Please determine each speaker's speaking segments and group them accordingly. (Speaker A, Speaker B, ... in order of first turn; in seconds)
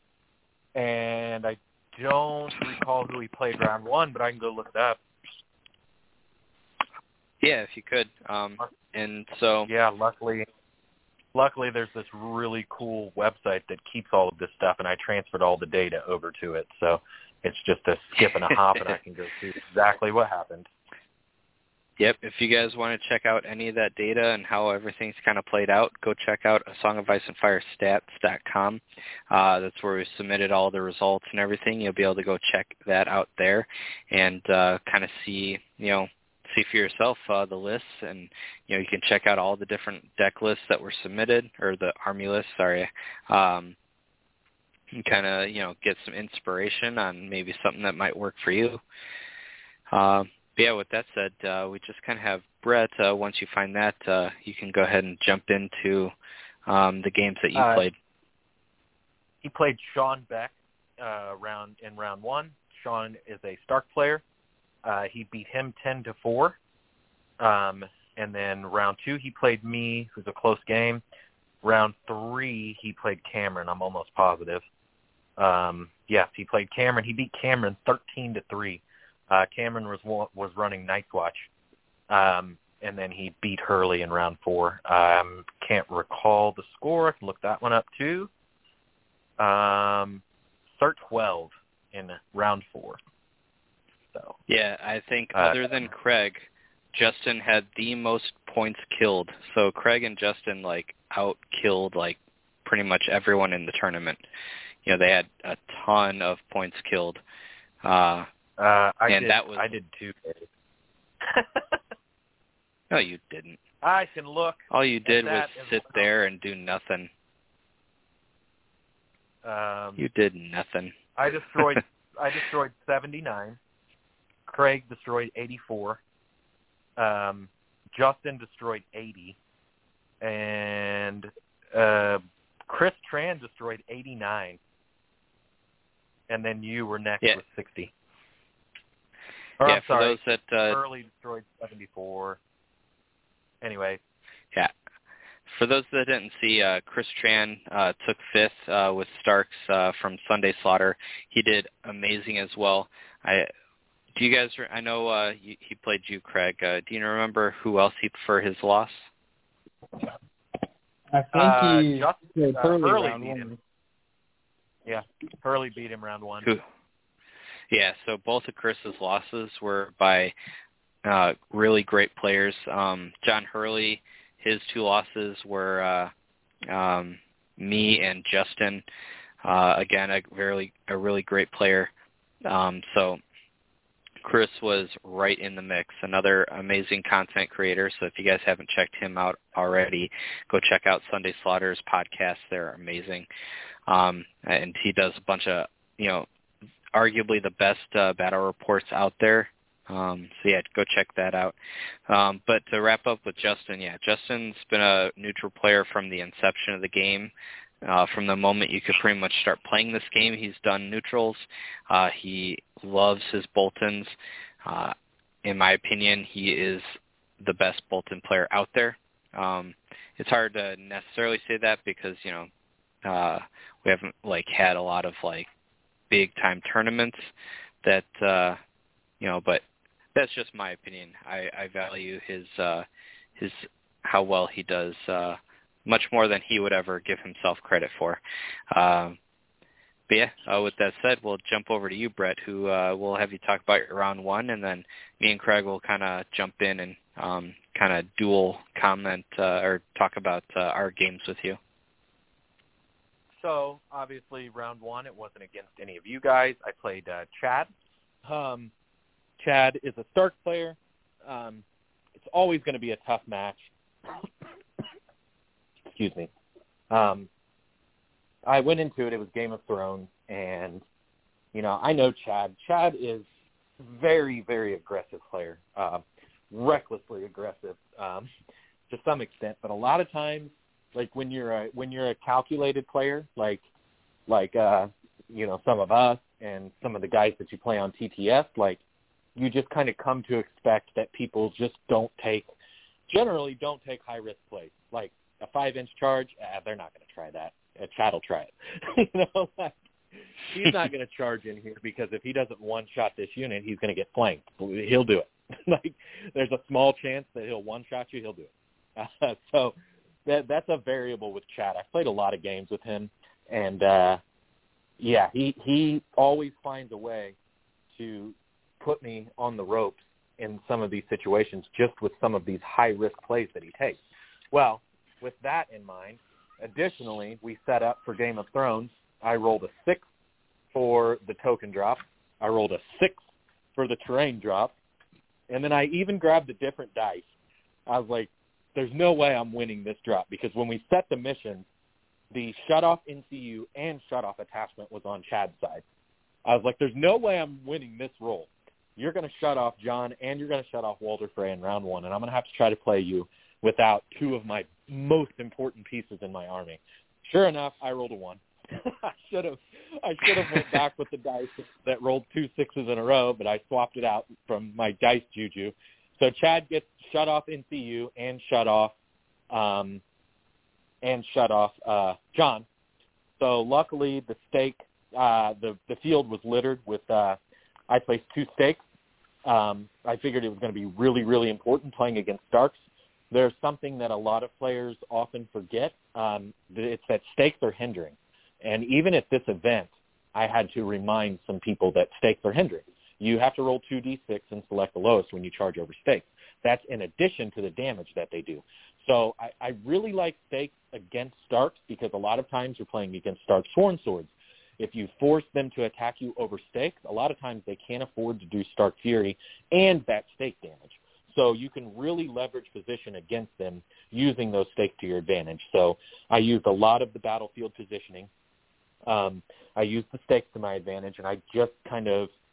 Speaker A: 0.8-5.0, 9.7-10.5, 11.3-20.7, 57.5-57.9, 59.4-64.2, 64.8-66.6, 67.4-71.0, 71.6-74.7, 75.4-81.5, 82.1-88.3, 89.4-90.2, 90.7-93.0, 95.3-95.6, 108.6-110.4, 111.3-111.8, 113.8-116.1, 119.4-120.0, 121.2-123.6, 124.5-126.0, 127.0-129.4, 130.2-134.6, 136.3-137.9, 139.6-142.4, 143.6-144.0, 161.3-163.5, 164.9-166.5, 253.4-257.7, 258.2-258.7, 259.4-261.6, 262.2-263.7, 265.9-266.3, 266.9-267.3, 268.5-270.8, 271.5-273.3, 273.8-278.3, 278.9-283.6, 284.3-288.8, 289.4-292.5, 293.1-299.8, 300.4-309.8, 310.3-314.2, 315.0-317.4, 317.9-324.0, 324.5-330.0, 330.7-333.2, 333.8-334.7, 335.5-337.2, 337.9-341.7, 342.3-345.8, 346.5-368.9, 369.5-370.0, 371.0-372.7, 373.4-377.4, 377.9-378.8, 379.5-382.8, 383.3-418.3, 419.1-422.3
Speaker B: 7.4-9.7, 22.0-43.8, 44.9-48.8, 49.9-56.1, 56.7-58.0, 94.5-104.2, 104.8-107.2, 107.8-108.3, 109.1-109.7, 112.9-113.6, 114.7-117.1, 120.0-121.0, 139.7-140.8, 145.5-153.5, 154.2-159.1, 167.7-170.3, 171.1-176.1, 176.7-178.8, 179.4-181.9, 182.5-183.2, 184.2-193.3, 193.9-196.3, 196.9-201.6, 202.1-207.3, 207.8-214.1, 214.7-216.9, 217.4-222.5, 223.1-225.5, 226.1-227.3, 227.8-228.6, 229.2-229.6, 230.2-232.9, 233.4-238.2, 238.7-239.2, 240.1-251.6
Speaker C: 161.1-163.6